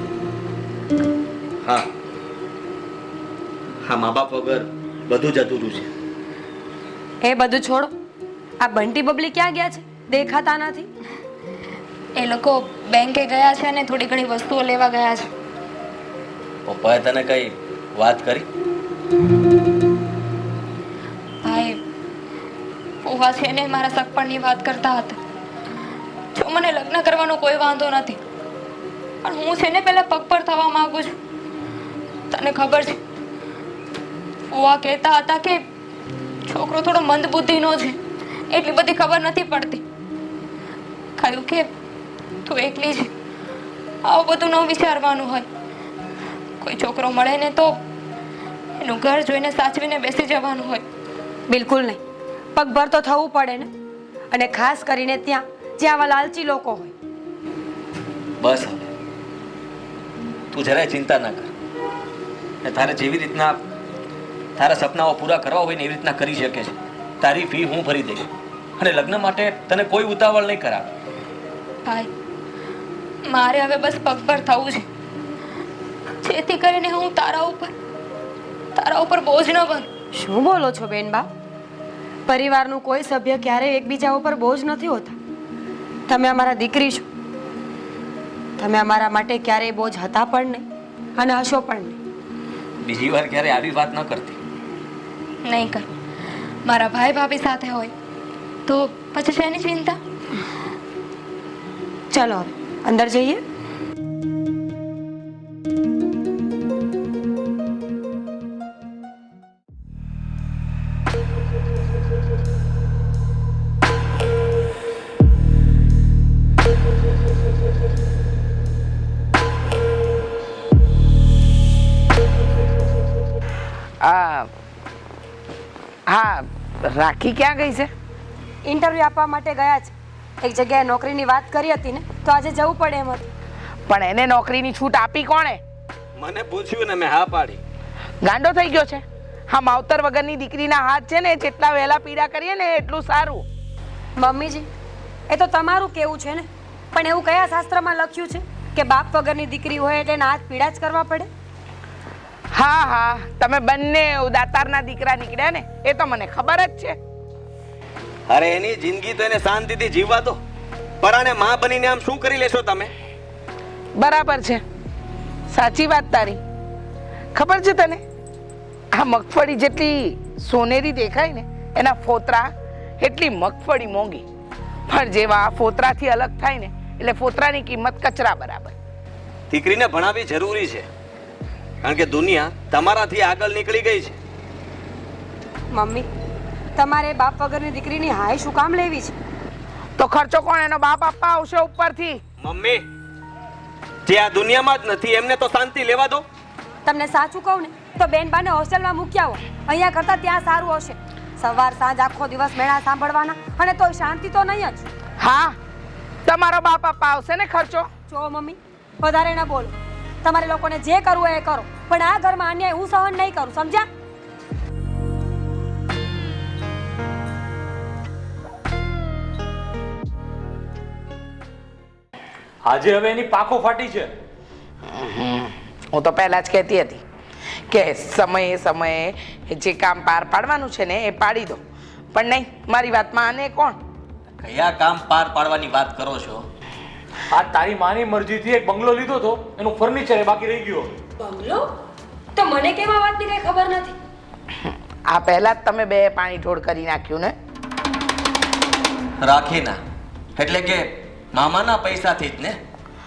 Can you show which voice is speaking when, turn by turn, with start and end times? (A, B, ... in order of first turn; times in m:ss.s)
0:01.6-0:01.9 A
0:03.8-0:05.9 A
0:07.2-0:07.9 B
0:08.6-0:10.9 B
0:12.2-0:15.3 C
0:16.6-0:18.4 A
0:21.4-0:21.8 C
0:23.0-0:25.2 C
0:26.3-0:28.2 C
0:29.2-0:31.1 C
0:32.3-0:33.0 C
0:34.5-0:35.6 C
0:36.4-0:38.0 C
0:38.5-0:39.8 C
0:41.2-0:41.7 C
0:42.4-0:43.1 C
0:44.0-0:45.5 C
0:46.6-0:47.8 C
0:48.8-0:50.8 C
0:51.5-0:52.0 B
0:52.5-0:53.7 B
0:54.3-0:56.9 B
0:58.4-0:58.9 A
1:00.5-1:01.5 A
1:02.6-1:03.6 A
1:04.6-1:10.9 A
1:13.2-1:14.8 C
1:16.2-1:17.7 C
1:18.7-1:19.9 C
1:20.1-1:21.3 B
1:22.3-1:25.2 B
1:26.1-1:27.0 B
1:28.6-1:30.6 B
1:31.2-1:32.0 B
1:32.8-1:34.4 A
1:35.4-1:35.9 C
1:36.6-1:37.9 C
1:38.6-1:40.0 C
1:42.1-1:43.4 B
2:04.0-2:04.5 D
2:06.1-2:07.9 D
2:08.6-2:13.3 B
2:13.9-2:15.6 D
2:16.2-2:17.6 A
2:18.2-2:23.4 D
2:24.2-2:24.7 B
2:25.3-2:31.3 B
2:32.5-2:37.0 D
2:38.3-2:40.4 A
2:41.0-2:42.9 A
2:44.0-2:44.6 D
2:45.5-2:46.4 D
2:47.3-2:48.0 D
2:48.9-2:54.2 D
2:54.9-2:58.7 D
2:59.5-3:00.8 A
3:01.8-3:04.1 A
3:05.7-3:06.1 B
3:06.8-3:09.2 B
3:10.0-3:12.2 D
3:12.4-3:12.8 A
3:14.0-3:16.2 A
3:16.8-3:24.9 B
3:25.2-3:25.6 D
3:26.2-3:27.9 D
3:28.1-3:33.9 B
3:42.6-3:44.1 E
3:44.8-3:47.0 D
3:47.7-3:51.6 D
3:52.1-3:53.8 D
3:54.4-3:56.4 A
3:57.3-4:01.0 E
4:01.2-4:01.7 B
4:02.3-4:04.0 B
4:04.5-4:07.3 D
4:09.2-4:09.8 A
4:10.4-4:12.6 A